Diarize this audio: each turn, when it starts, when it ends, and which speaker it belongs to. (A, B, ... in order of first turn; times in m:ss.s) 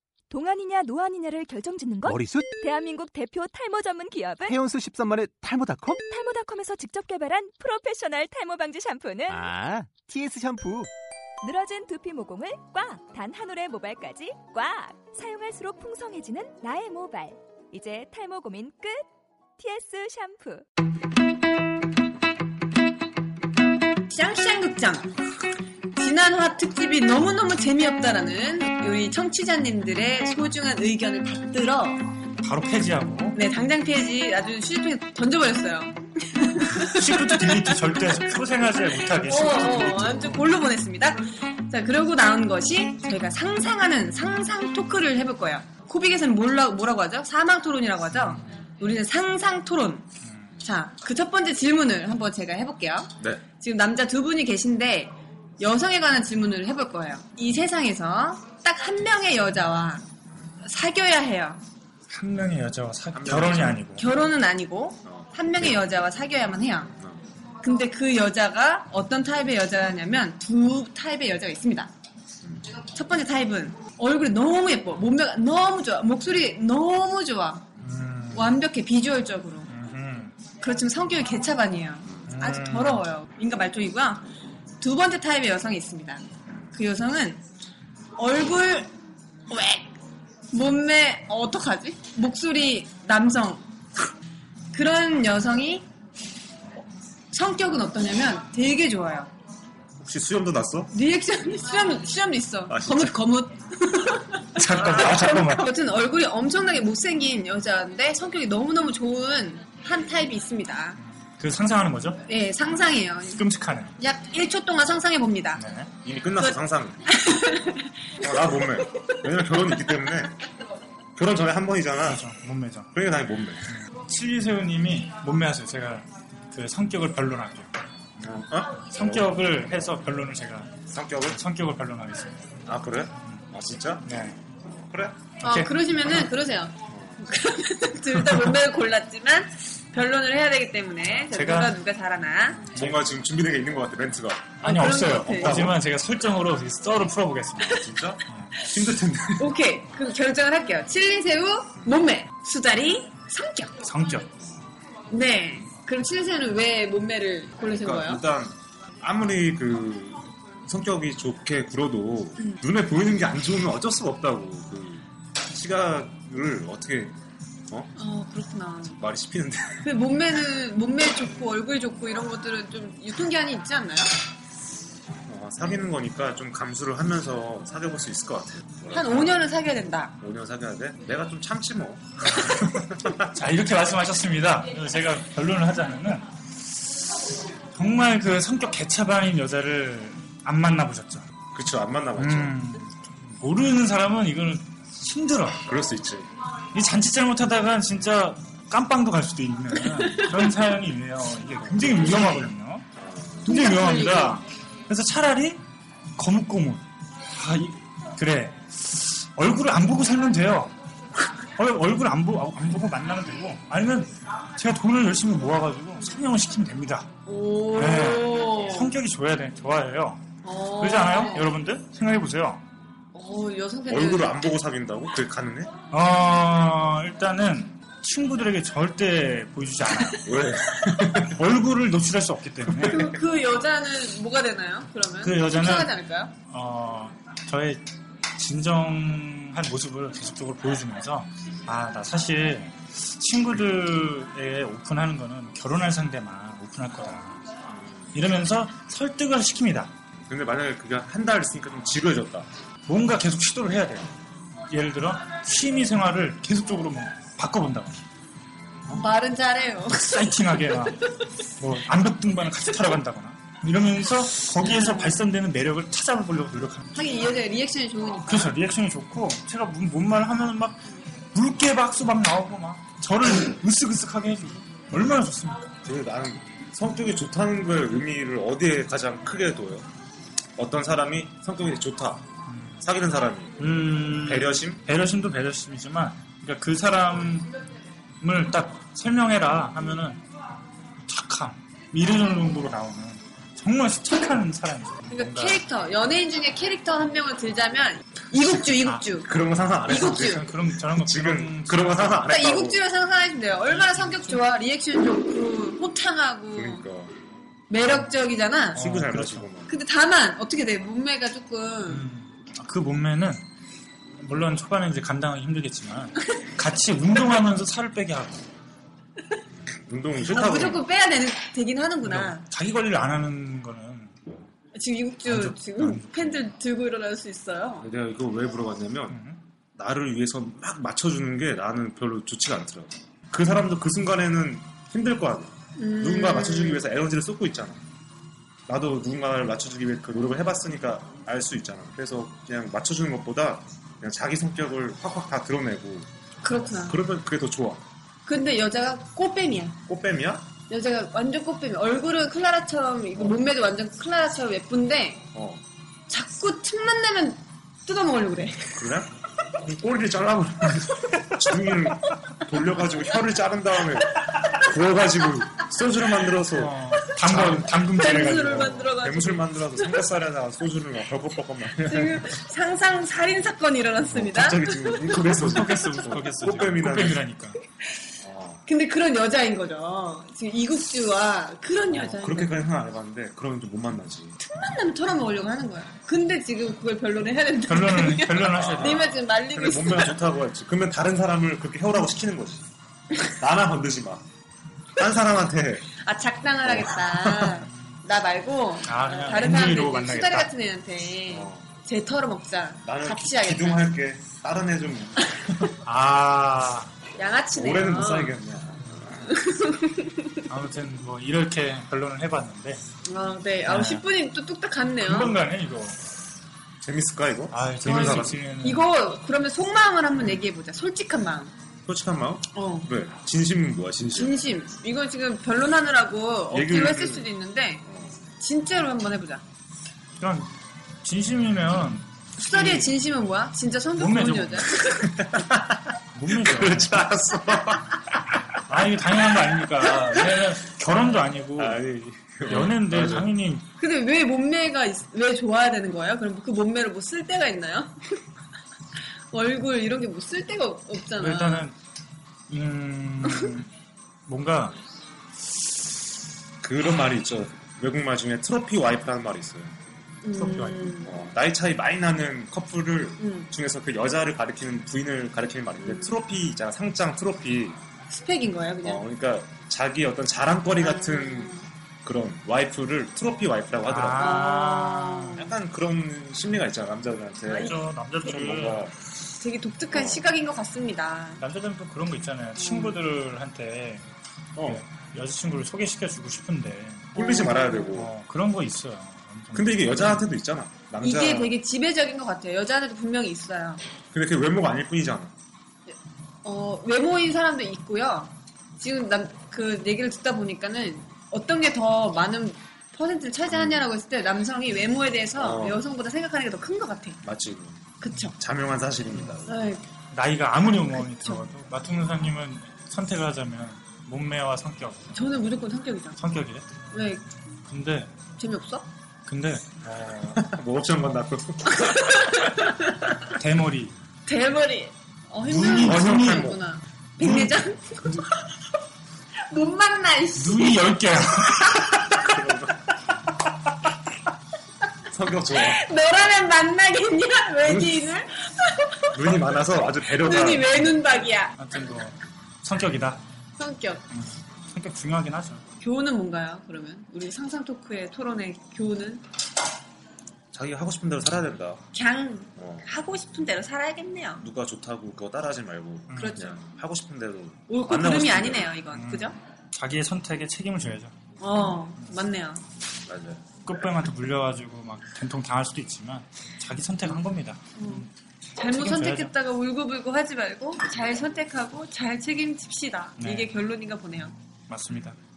0:00.3-0:04.6 A
0:02.0-0:02.5 B
0:04.4-0:06.0 B
0:06.0-0:09.4 A
0:09.3-0:10.9 B
0:11.4-0:19.0 A
0:19.6-0:20.6 A
0:24.1-0:25.1 C
0:26.0-0:32.1 C
0:32.4-0:33.4 D
0:33.3-0:37.6 C
0:36.8-0:40.5 D
0:39.2-0:50.1 C
0:48.1-0:48.4 D
0:50.2-0:50.5 D
0:50.6-1:00.0 C
0:53.2-0:53.4 E
1:00.6-1:01.6 C
1:02.1-1:04.0 D
1:03.1-1:03.9 E
1:04.0-1:06.9 C
1:05.0-1:05.8 E
1:07.0-1:07.2 E
1:07.6-1:11.9 C
1:12.9-1:17.6 C
1:17.8-1:18.6 D
1:18.3-1:19.7 C
1:19.7-1:20.4 D
1:20.6-1:24.2 C
1:22.3-1:23.0 D
1:24.8-1:27.4 C
1:28.2-1:28.9 C
1:29.5-1:29.9 C
1:30.5-1:33.6 C
1:34.7-1:35.9 C
1:37.3-1:39.3 C
1:40.0-1:40.9 E
1:40.9-1:51.0 C
1:42.7-1:43.2 E
1:44.6-1:45.7 D
1:51.0-1:52.2 D
1:52.2-1:53.4 C
1:53.4-1:53.9 D
1:54.0-1:55.6 C
1:55.6-1:55.9 D
1:56.0-1:57.0 E
1:57.1-1:58.3 C
1:58.2-2:00.4 E
2:01.2-2:02.2 E
2:02.0-2:02.9 D
2:02.9-2:03.7 E
2:03.7-2:07.7 D
2:08.2-2:10.0 E
2:08.8-2:10.8 D
2:10.9-2:11.4 E
2:11.3-2:12.3 D
2:12.7-2:14.1 E
2:14.0-2:14.4 D
2:14.7-2:15.3 E
2:15.4-2:15.7 D
2:15.4-2:22.6 C
2:16.9-2:17.2 E
2:21.2-2:21.8 D
2:22.7-2:25.8 E
2:22.7-2:23.1 D
2:24.6-2:28.6 D
2:24.6-2:25.7 C
2:27.6-2:29.6 E
2:29.4-2:33.8 C
2:33.8-2:34.3 D
2:35.1-2:38.2 C
2:37.6-2:47.2 E
2:48.0-2:49.0 C
2:48.8-2:49.9 E
2:49.8-2:54.1 C
2:55.3-2:59.6 E
2:58.9-3:00.2 C
3:00.2-3:03.3 E
3:03.3-3:11.3 D
3:11.5-3:12.6 E
3:12.2-3:15.6 D
3:15.6-3:16.3 E
3:16.7-3:22.9 D
3:19.9-3:20.4 C
3:21.8-3:22.3 E
3:23.0-3:23.6 E
3:23.4-3:25.6 D
3:23.5-3:24.4 C
3:26.2-3:30.7 D
3:31.6-3:37.1 D
3:37.3-3:38.9 C
3:37.7-3:40.2 D
3:40.4-3:41.5 C
3:40.8-3:42.6 D
3:43.1-3:44.3 C
3:43.9-3:45.7 E
3:45.9-3:50.3 D
3:50.2-3:51.4 E
3:51.1-3:53.2 D
3:52.8-3:53.1 E
3:52.8-3:56.3 C
3:55.2-3:55.9 D
3:56.5-3:57.8 D
3:58.4-4:07.4 D
4:07.8-4:08.2 E
4:08.1-4:09.9 D
4:10.3-4:12.5 E
4:12.9-4:18.0 D
4:18.9-4:20.2 C
4:19.9-4:26.9 D
4:24.7-4:25.2 C
4:26.9-4:28.6 C
4:28.3-4:30.8 D
4:31.3-4:35.7 D
4:35.8-4:39.9 E
4:40.6-4:42.3 E
4:42.5-4:42.8 D
4:42.8-4:44.8 E
4:43.6-4:47.5 D
4:48.2-4:50.2 D
4:51.1-4:55.6 D
4:55.1-4:59.3 C
4:59.2-5:02.8 E
4:59.8-5:02.4 D
4:59.9-5:00.5 C
5:02.3-5:06.8 C
5:03.7-5:04.4 D
5:06.6-5:07.1 E
5:07.7-5:08.8 C
5:07.8-5:08.1 D
5:08.8-5:09.5 D
5:08.8-5:09.7 E
5:09.7-5:12.0 C
5:11.9-5:13.4 D
5:14.2-5:18.4 D
5:19.9-5:20.8 E
5:20.2-5:22.4 C
5:22.0-5:24.1 D
5:24.7-5:27.9 C
5:25.3-5:26.4 D
5:27.8-5:29.2 E
5:29.1-5:29.4 D
5:29.8-5:37.8 E
5:35.8-5:36.8 C
5:38.7-5:46.1 E
5:46.4-5:47.0 C
5:46.7-5:47.8 E
5:48.3-5:49.8 C
5:49.9-5:50.5 E
5:50.7-5:55.3 C
5:53.2-5:53.5 E
5:55.3-5:55.6 E
5:56.1-5:58.9 C
5:58.8-5:59.1 E
5:59.6-6:07.7 E
6:06.5-6:09.0 D
6:07.9-6:10.0 C
6:09.0-6:12.3 E
6:11.8-6:15.2 C
6:14.1-6:17.2 E
6:15.1-6:17.6 D
6:18.2-6:18.6 E
6:18.7-6:22.6 C
6:21.9-6:24.4 E
6:24.4-6:30.2 C
6:27.7-6:29.2 D
6:28.5-6:32.7 E
6:33.3-6:34.2 E
6:35.0-6:35.9 E
6:36.0-6:43.9 C
6:36.6-6:37.6 E
6:38.9-6:40.5 D
6:41.3-6:41.7 E
6:42.8-6:45.3 E
6:45.7-6:46.9 D
6:47.2-6:48.4 C
6:47.5-6:49.3 E
6:49.1-6:50.3 C
6:50.5-6:52.8 D
6:53.0-6:55.3 C
6:53.6-6:54.1 D
6:55.0-6:56.0 D
6:56.8-6:58.4 E
6:57.5-6:58.9 D
6:57.8-7:01.5 C
7:01.9-7:04.4 E
7:02.5-7:02.9 C
7:04.2-7:07.8 C
7:06.5-7:07.3 E
7:07.8-7:08.2 E
7:08.4-7:09.4 C
7:10.2-7:12.9 D
7:12.4-7:15.0 C
7:12.6-7:12.9 E
7:14.0-7:14.8 D
7:14.8-7:18.4 E
7:16.1-7:17.1 D
7:18.7-7:21.8 D
7:21.6-7:23.3 E
7:22.4-7:23.7 D
7:23.8-7:28.2 C
7:29.3-7:31.7 C
7:31.2-7:31.8 D
7:32.5-7:33.7 D
7:34.3-7:34.8 D
7:36.6-7:39.8 E
7:40.2-7:41.2 C
7:40.3-7:41.0 D
7:41.0-7:47.8 E
7:43.2-7:43.5 C
7:45.8-7:46.2 C
7:48.1-7:49.0 C
7:48.8-7:54.4 E
7:50.8-7:51.6 C
7:53.9-7:55.4 D
7:54.2-7:55.5 C
7:55.4-7:58.9 E
7:57.5-7:57.8 C
7:57.6-7:58.9 D
7:59.4-8:01.4 C
7:59.9-8:00.3 E
8:01.4-8:04.1 D
8:02.6-8:03.0 C
8:04.6-8:04.8 E
8:04.6-8:07.2 D
8:07.2-8:08.1 E
8:07.2-8:08.0 C
8:07.9-8:10.3 D
8:09.5-8:11.6 E
8:11.0-8:13.8 C
8:14.1-8:15.3 E
8:16.4-8:27.2 C
8:23.5-8:23.9 E
8:25.4-8:25.9 E
8:27.2-8:29.7 E
8:28.0-8:28.3 C
8:29.5-8:29.8 C
8:30.1-8:35.2 D
8:30.9-8:31.4 C
8:35.1-8:36.2 C
8:36.2-8:37.1 D
8:36.9-8:37.2 C
8:37.7-8:38.1 D
8:38.4-8:38.9 C
8:39.3-8:40.4 D
8:40.2-8:42.1 E
8:41.7-8:42.9 C
8:43.3-8:44.0 D
8:44.3-8:48.1 C
8:45.4-8:46.6 D
8:45.8-8:46.6 E
8:47.2-8:48.2 D
8:49.5-8:50.8 C
8:50.4-8:52.3 D
8:52.1-8:52.8 E
8:55.1-8:55.9 E
8:55.6-8:59.2 C
8:57.6-8:58.0 E
8:59.1-9:00.9 E
9:00.2-9:01.6 C
9:01.6-9:03.2 D
9:03.6-9:04.0 C
9:04.1-9:05.6 D
9:05.8-9:09.2 C
9:10.5-9:11.8 E
9:11.9-9:14.4 C
9:12.6-9:12.8 E
9:14.4-9:18.8 E
9:16.1-9:16.5 D
9:16.2-9:16.6 C
9:17.7-9:19.4 C
9:18.9-9:21.2 D
9:21.4-9:22.6 C
9:23.1-9:23.4 E
9:23.6-9:28.1 D
9:27.8-9:34.4 C
9:28.7-9:29.3 D
9:33.2-9:33.6 D
9:34.7-9:35.2 D